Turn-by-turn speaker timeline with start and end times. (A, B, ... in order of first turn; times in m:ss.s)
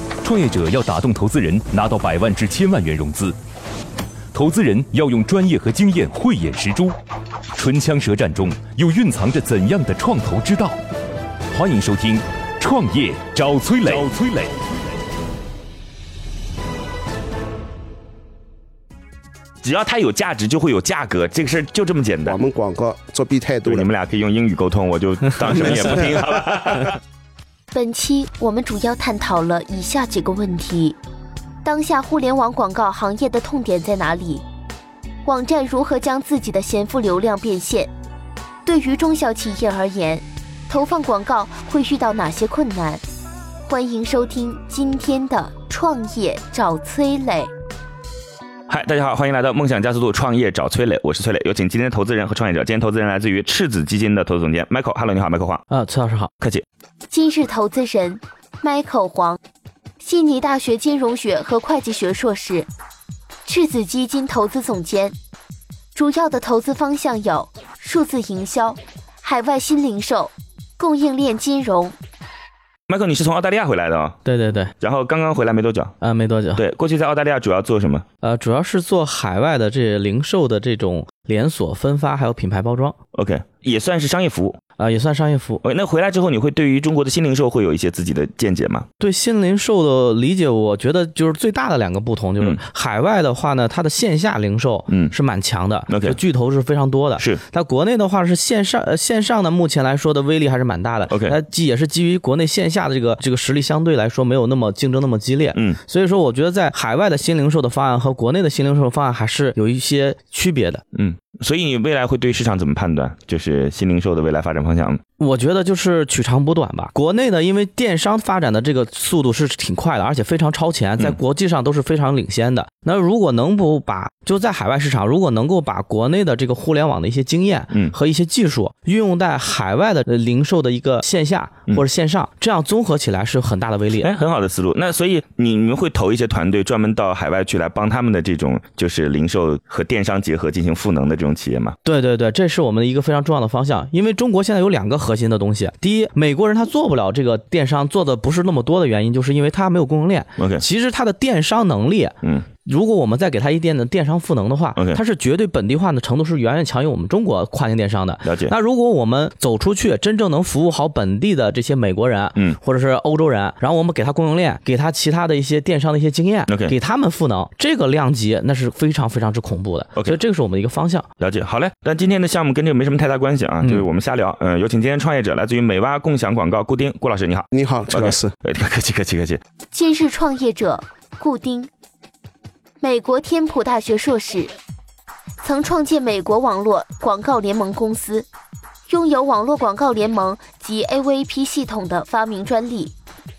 0:00.2-0:03.4 A
0:04.3-0:07.0 A
0:07.6-0:10.8 A
0:11.5-0:14.5 A
0:19.6-0:22.4 B
0:22.2-0:23.9 C
0:23.7-0:27.0 B
0:27.7-0:31.0 D
0:31.6-0:34.4 D
0:35.2-0:37.9 D
0:38.6-0:43.0 D
0:43.6-0:47.5 D
0:48.7-0:55.6 B
0:55.7-0:56.3 E
0:57.1-0:59.4 D
1:00.0-1:02.7 D
1:03.4-1:05.2 D
1:06.0-1:12.0 D
1:12.9-1:14.2 B
1:14.2-1:14.7 E
1:14.8-1:16.0 B
1:16.0-1:16.6 E
1:16.6-1:18.0 B
1:18.2-1:23.0 E
1:23.1-1:24.6 B
1:24.8-1:25.6 E
1:25.6-1:28.9 B
1:29.0-1:50.8 E
1:34.9-1:35.1 B
1:35.9-1:36.2 B
1:41.1-1:41.4 B
1:50.9-1:55.0 B
1:55.2-2:14.1 E
2:14.0-2:21.8 B
2:21.8-2:51.1 E
2:30.4-2:30.6 B
2:38.2-2:38.5 B
2:46.5-2:46.7 B
2:51.2-2:59.4 B
2:57.5-2:58.3 C
2:59.7-3:01.7 D
3:02.8-3:04.5 D
3:05.4-3:08.3 D
3:08.9-3:12.9 D